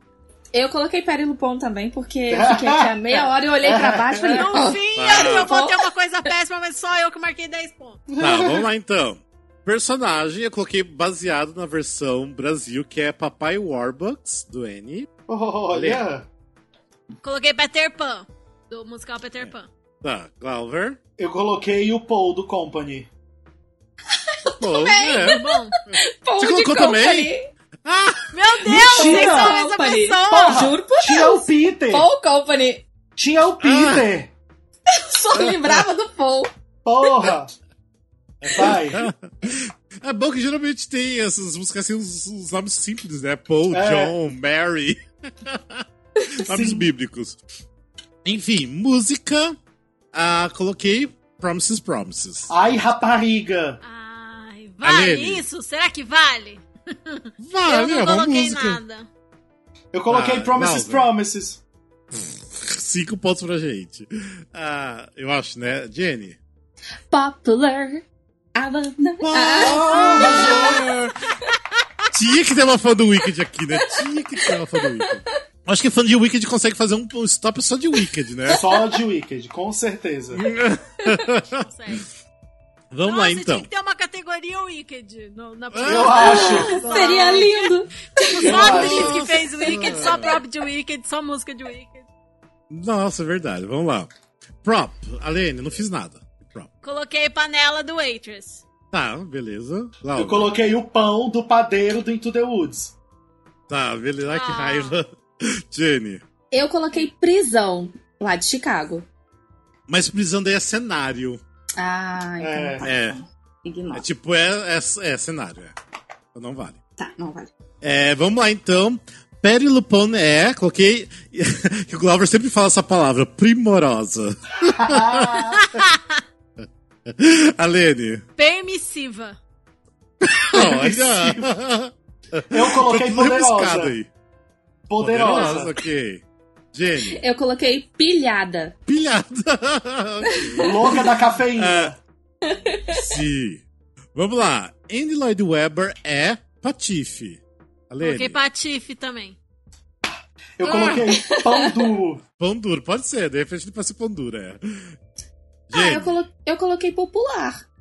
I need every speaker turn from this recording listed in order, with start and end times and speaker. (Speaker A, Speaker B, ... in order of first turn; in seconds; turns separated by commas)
Speaker A: 0.5-5.8, Speaker B: 2.3-4.5, Speaker C: 4.3-8.0, Speaker D: 5.0-5.5, Speaker B: 8.1-8.7, Speaker D: 8.2-15.1, Speaker B: 15.3-16.3, Speaker D: 15.7-16.0, Speaker C: 17.2-19.7, Speaker D: 19.4-21.0, Speaker B: 21.2-23.1, Speaker A: 24.1-27.5, Speaker D: 24.5-27.3, Speaker C: 25.1-25.8, Speaker D: 27.9-28.3, Speaker C: 28.3-30.8, Speaker B: 28.6-29.6, Speaker A: 28.7-32.9, Speaker B: 30.3-32.1, Speaker B: 33.2-34.3, Speaker D: 33.6-34.0, Speaker A: 34.9-36.5, Speaker D: 35.3-35.8, Speaker B: 36.9-37.5, Speaker B: 38.4-39.1, Speaker D: 38.4-47.4, Speaker B: 43.7-44.1, Speaker B: 46.5-46.9, Speaker D: 48.2-49.6, Speaker D: 50.1-52.5, Speaker B: 52.5-53.8, Speaker C: 53.8-59.1, Speaker D: 54.8-55.4, Speaker D: 57.4-58.8, Speaker B: 59.9-61.6, Speaker D: 60.1-61.1, Speaker D: 62.1-66.4, Speaker A: 67.1-68.0, Speaker A: 68.5-70.9, Speaker D: 69.2-71.3, Speaker B: 69.6-70.9, Speaker D: 72.0-78.6, Speaker A: 73.9-75.3, Speaker B: 78.5-80.5, Speaker A: 78.5-78.8, Speaker D: 80.3-81.7, Speaker C: 81.6-82.1, Speaker D: 82.9-83.7, Speaker C: 83.0-92.1, Speaker D: 85.7-87.4, Speaker B: 85.8-87.2, Speaker A: 86.2-90.2, Speaker B: 88.4-89.2, Speaker D: 88.6-90.4, Speaker D: 92.7-94.1, Speaker D: 94.6-96.7, Speaker C: 96.8-98.6, Speaker D: 98.9-100.5, Speaker B: 100.1-102.9, Speaker D: 103.7-106.2, Speaker C: 104.3-105.0, Speaker A: 106.5-109.1, Speaker D: 109.9-111.4, Speaker A: 111.8-114.0, Speaker B: 112.4-112.9, Speaker D: 112.8-113.2, Speaker D: 113.9-115.7, Speaker D: 116.3-116.8, Speaker A: 117.0-117.5, Speaker D: 117.8-125.8, Speaker B: 124.6-125.7, Speaker C: 125.7-126.2, Speaker D: 127.1-128.2, Speaker C: 128.4-129.4, Speaker D: 130.2-134.1, Speaker B: 130.5-131.5, Speaker B: 132.5-134.0, Speaker B: 134.9-135.8, Speaker D: 135.0-137.2, Speaker A: 137.1-138.7, Speaker D: 138.9-141.9, Speaker A: 140.3-140.9, Speaker B: 140.6-142.0, Speaker A: 142.4-143.0, Speaker D: 142.9-143.6, Speaker D: 144.1-148.4, Speaker C: 148.0-149.4, Speaker B: 150.6-152.2, Speaker A: 151.1-151.9, Speaker D: 152.4-154.9, Speaker D: 155.7-156.2, Speaker A: 155.7-157.6